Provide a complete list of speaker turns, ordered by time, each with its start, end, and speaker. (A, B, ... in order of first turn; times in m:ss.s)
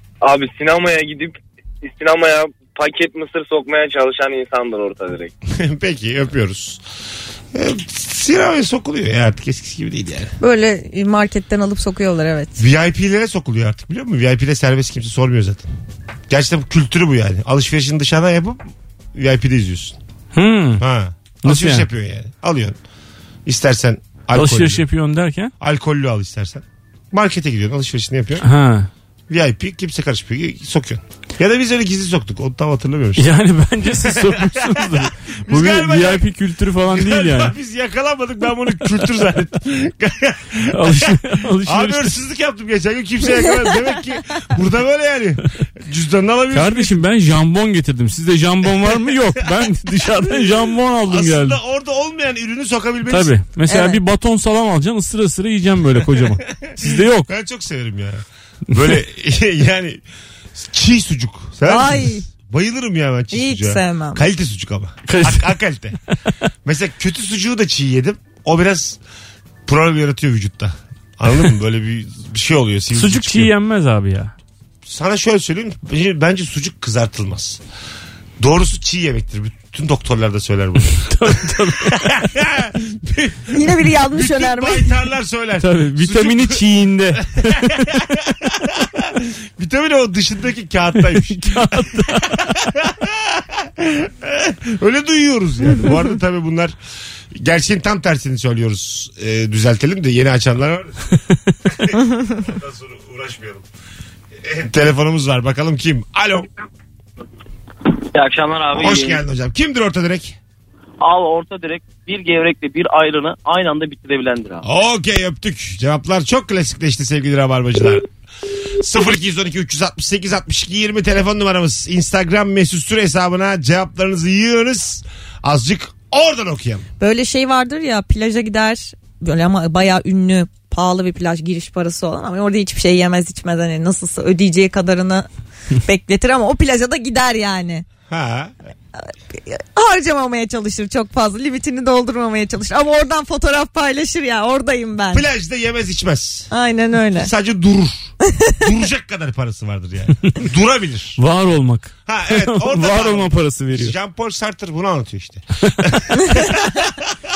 0:00.2-0:05.3 A
0:05.5-0:06.8 B
0:07.5-0:10.3 B
0:10.4-0:12.6 C
0:12.6-0:15.7 B
0:16.3-0:18.6 B
0:19.2-0:20.0 B
0:20.3-0:20.8 D
0:20.8-0:22.8 B
0:21.4-0:21.9 D
0:23.5-0:24.8 B
0:24.4-0:25.5 D
0:25.6-0:28.5 B
0:28.4-0:28.9 D
0:29.3-0:33.3 B
0:33.2-0:37.6 D
0:33.9-0:36.3 B
0:36.8-0:47.0 B
0:40.7-0:42.2 D
0:46.5-0:51.6 D
0:51.1-0:53.3 B
0:53.1-0:57.3 D
0:53.7-0:54.0 C
0:56.6-1:00.0 B
1:00.6-1:06.0 B
1:01.6-1:02.3 C
1:03.3-1:04.2 C
1:05.1-1:05.6 D
1:06.6-1:09.0 B
1:09.7-1:13.5 B
1:12.9-1:14.3 D
1:14.8-1:17.6 B
1:18.4-1:26.6 B
1:20.9-1:22.2 D
1:23.5-1:24.9 C
1:25.6-1:28.1 D
1:27.2-1:36.8 B
1:31.0-1:32.4 D
1:37.3-1:43.7 B
1:44.4-1:46.5 B
1:48.1-1:49.2 E
1:48.7-1:50.4 B
1:51.0-1:54.6 E
1:54.6-1:58.0 B
1:58.8-2:06.9 B
2:07.0-2:15.3 C
2:15.8-2:17.8 C
2:18.1-2:18.5 B
2:19.3-2:25.3 C
2:25.1-2:26.5 B
2:26.5-2:27.3 C
2:27.1-2:31.2 B
2:28.3-2:28.6 C
2:31.2-2:33.9 D
2:32.1-2:37.1 B